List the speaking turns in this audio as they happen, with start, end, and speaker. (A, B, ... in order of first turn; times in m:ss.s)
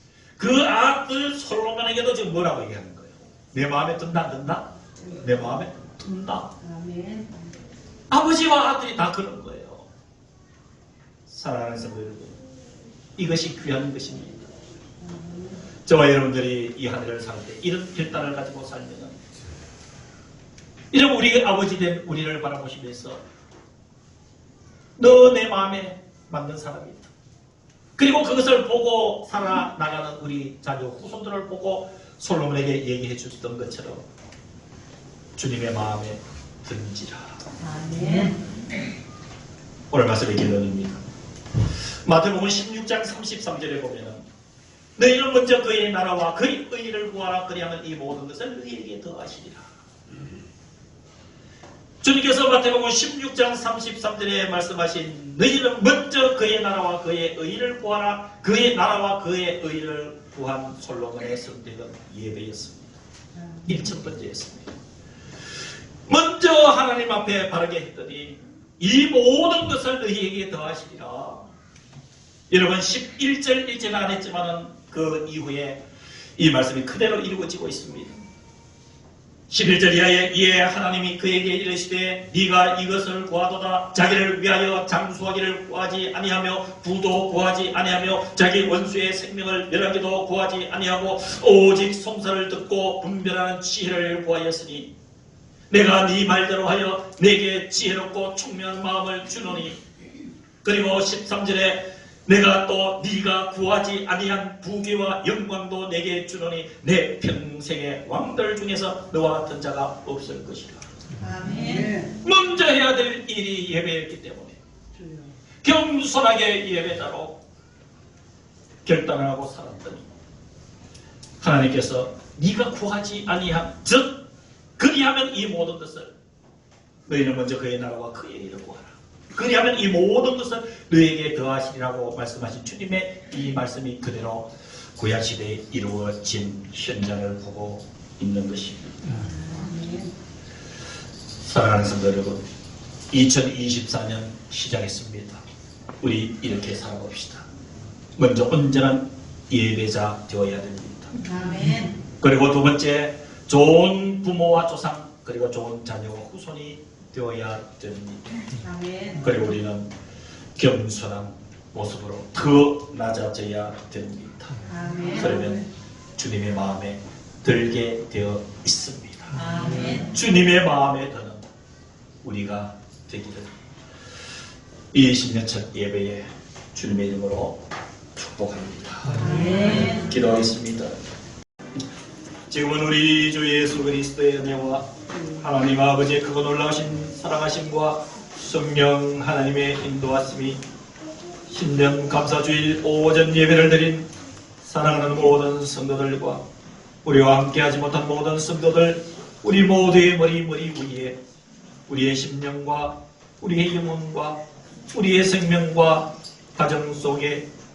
0:00.4-0:06.5 A
0:06.6-0:07.5 B
0:08.1-0:09.8 A
0:11.3-0:12.4 A
0:13.2-0:14.5 A
0:15.0-0:15.6 B
0:15.8-0:19.2 A
0:20.9-0:23.2 A
0:25.0-0:27.1 A
0:28.0-0:34.0 A
0:35.4-0:37.3 A
0:37.6-0:38.4 B
0:39.9-0:41.0 A
0:42.0-0:44.2 A
0:45.0-0:49.7 A
0:52.0-1:02.9 A
1:03.6-1:04.7 A
1:06.1-1:11.4 A
1:12.5-1:15.8 A
1:16.4-1:18.2 A
1:19.5-1:34.9 A
1:35.7-1:39.8 A
1:40.6-1:50.8 A
1:51.2-1:52.2 B
1:52.2-1:54.6 A
1:55.6-1:57.4 A
1:58.8-2:00.1 A
2:01.4-2:04.2 A
2:04.8-2:06.1 A
2:07.1-2:19.2 A
2:19.2-2:20.2 B
2:21.4-2:22.4 A
2:23.1-2:25.4 A
2:26.0-2:27.4 A
2:28.2-2:31.2 A
2:31.2-2:32.0 B
2:32.2-2:38.4 A
2:38.6-2:39.3 B
2:39.2-2:39.9 A
2:40.6-2:44.6 A
2:44.6-2:45.6 B
2:45.2-2:49.4 A
2:49.3-2:50.1 B
2:50.1-2:51.4 A
2:52.2-2:53.5 A
2:54.9-2:57.6 A
2:58.2-2:59.2 A
2:59.1-3:00.1 B
2:59.8-3:00.9 A
3:02.5-3:04.9 A
3:05.4-3:10.6 A
3:11.5-3:14.1 A
3:14.6-3:16.4 A
3:17.0-3:21.2 A
3:21.9-3:24.4 A
3:24.9-3:27.5 A